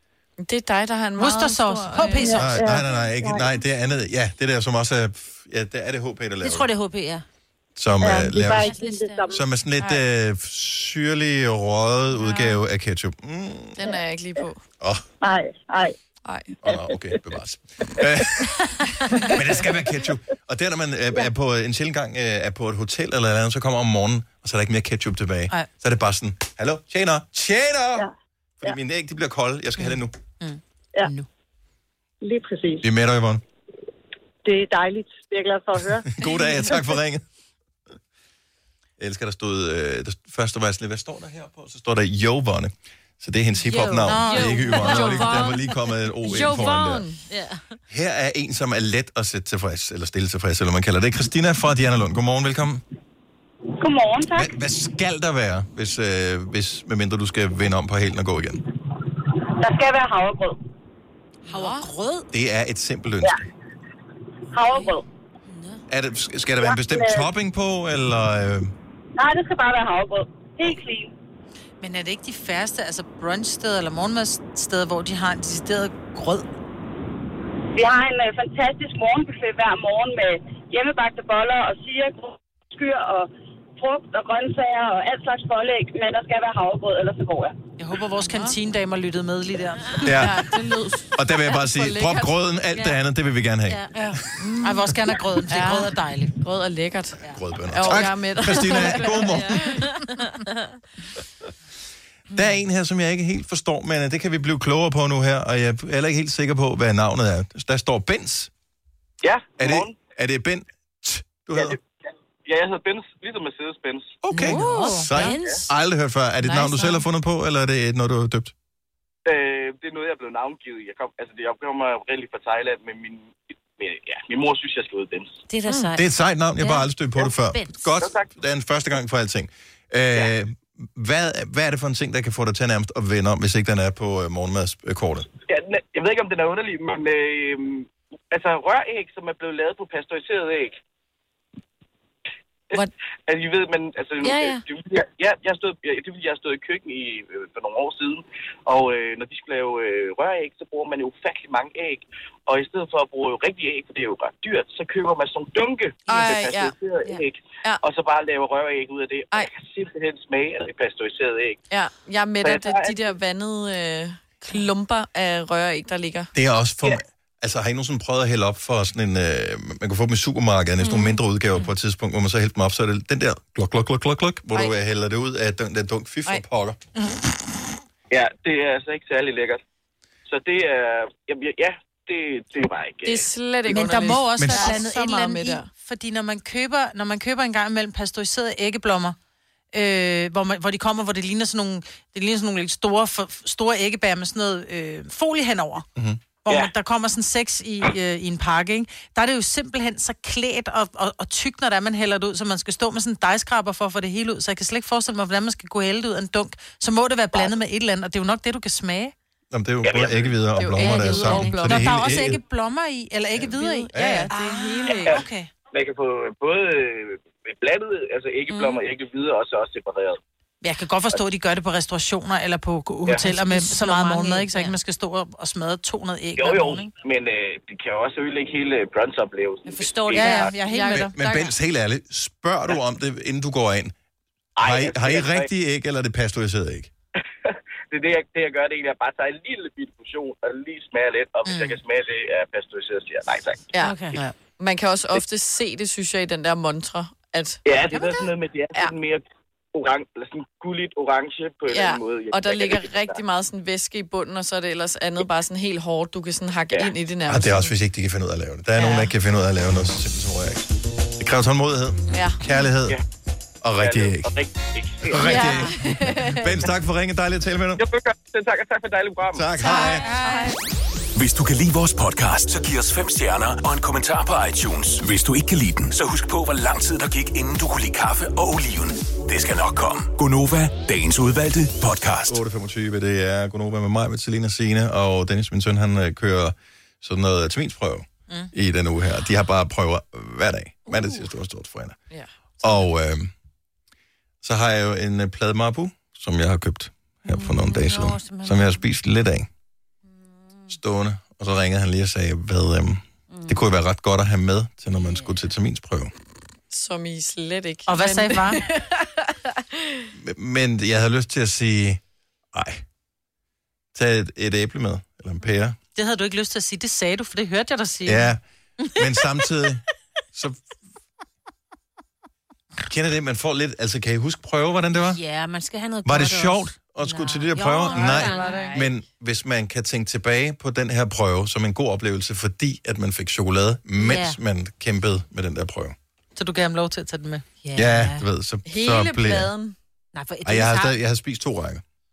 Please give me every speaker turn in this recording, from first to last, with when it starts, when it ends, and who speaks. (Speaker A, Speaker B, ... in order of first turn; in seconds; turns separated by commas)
Speaker A: 0.4-2.4, Speaker B: 1.2-2.6, Speaker C: 2.2-3.5, Speaker D: 2.3-6.7, Speaker E: 6.4-7.2, Speaker D: 7.8-8.8, Speaker C: 8.0-9.4, Speaker E: 8.4-9.3, Speaker D: 9.3-13.9, Speaker A: 13.8-14.6, Speaker D: 14.8-15.1, Speaker C: 15.2-15.9, Speaker A: 16.2-16.6, Speaker D: 16.6-18.6, Speaker D: 19.3-28.1, Speaker D: 28.6-30.1, Speaker B: 29.8-31.3, Speaker C: 32.2-32.8, Speaker D: 32.8-33.4, Speaker C: 34.4-36.2, Speaker D: 36.1-37.2, Speaker D: 39.0-47.1, Speaker E: 43.6-47.8, Speaker B: 44.1-45.3, Speaker A: 45.0-45.3, Speaker A: 46.3-47.1, Speaker D: 47.9-52.8, Speaker F: 53.8-54.5, Speaker D: 54.3-58.6, Speaker F: 59.6-60.6, Speaker B: 61.5-62.2, Speaker A: 61.5-61.9, Speaker D: 62.3-63.4, Speaker F: 64.5-65.0, Speaker E: 65.5-65.8, Speaker D: 65.9-68.7, Speaker F: 66.6-67.3, Speaker F: 69.2-71.1, Speaker B: 71.8-76.5, Speaker F: 77.8-87.6, Speaker B: 87.8-90.3, Speaker D: 90.0-90.5, Speaker A: 90.1-92.3, Speaker D: 91.1-94.2, Speaker E: 93.7-94.1, Speaker B: 94.0-96.3, Speaker A: 94.4-94.9, Speaker A: 95.5-99.5, Speaker D: 97.3-99.7, Speaker E: 98.7-100.8, Speaker D: 102.3-108.5, Speaker G: 109.2-110.0, Speaker D: 109.6-111.8, Speaker G: 111.5-111.8, Speaker G: 112.5-114.2, Speaker D: 114.2-118.5, Speaker B: 114.3-115.1, Speaker E: 114.4-115.7, Speaker E: 116.4-117.0, Speaker G: 119.3-125.4, Speaker E: 125.5-126.1, Speaker D: 126.0-135.3, Speaker E: 126.6-127.9, Speaker G: 128.0-128.3, Speaker G: 135.5-140.8, Speaker G: 142.7-161.6, Speaker E: 144.2-144.6, Speaker A: 156.1-156.8, Speaker A: 161.7-166.3, Speaker G: 162.4-163.1, Speaker D: 166.3-176.8, Speaker E: 170.8-171.1, Speaker G: 178.1-179.6, Speaker G: 180.3-183.3, Speaker A: 183.0-185.7, Speaker B: 183.7-189.2, Speaker D: 184.4-184.7, Speaker B: 189.7-195.9, Speaker D: 196.0-196.2, Speaker B: 196.4-209.1, Speaker D: 209.5-212.4, Speaker G: 209.8-210.4, Speaker A: 210.6-211.8, Speaker E: 210.8-211.7, Speaker B: 211.2-215.5, Speaker A: 213.4-215.2, Speaker D: 213.9-214.3, Speaker G: 215.1-220.2, Speaker B: 220.6-226.9, Speaker E: 223.3-224.8, Speaker G: 226.4-230.6, Speaker E: 229.8-230.4, Speaker B: 230.1-231.2, Speaker A: 230.5-231.5, Speaker D: 230.9-233.9, Speaker G: 234.6-235.5, Speaker D: 234.6-236.9, Speaker G: 237.4-243.7, Speaker B: 241.5-241.8, Speaker A: 243.7-244.0, Speaker E: 243.8-244.2, Speaker A: 244.6-247.6, Speaker G: 247.7-253.2, Speaker B: 247.9-248.2, Speaker A: 251.7-257.7, Speaker D: 257.3-260.7, Speaker A: 258.8-259.1, Speaker D: 261.2-263.0, Speaker A: 262.1-262.4, Speaker D: 263.6-264.3, Speaker G: 263.8-265.5, Speaker D: 265.0-267.9, Speaker A: 265.2-266.5, Speaker G: 267.8-269.5, Speaker D: 269.3-270.1, Speaker B: 269.6-270.6, Speaker A: 270.2-270.5, Speaker H: 271.1-282.4, Speaker D: 282.3-292.0, Speaker A: 292.1-292.8, Speaker D: 292.6-293.3, Speaker D: 294.4-299.5, Speaker E: 297.3-298.8, Speaker D: 300.7-306.1, Speaker E: 303.3-303.6, Speaker E: 304.9-305.3, Speaker A: 306.7-309.1, Speaker B: 307.9-308.6, Speaker D: 310.1-312.0, Speaker D: 312.5-312.8, Speaker D: 313.9-315.8, Speaker B: 315.9-318.3, Speaker D: 318.1-319.8, Speaker D: 322.9-325.2, Speaker E: 325.0-328.8, Speaker D: 326.1-336.0, Speaker B: 327.9-328.8, Speaker A: 328.4-328.7, Speaker E: 334.0-334.4, Speaker B: 336.4-337.4, Speaker E: 337.6-338.2, Speaker D: 337.7-339.5, Speaker A: 338.7-339.8, Speaker E: 340.1-341.0, Speaker D: 340.4-341.8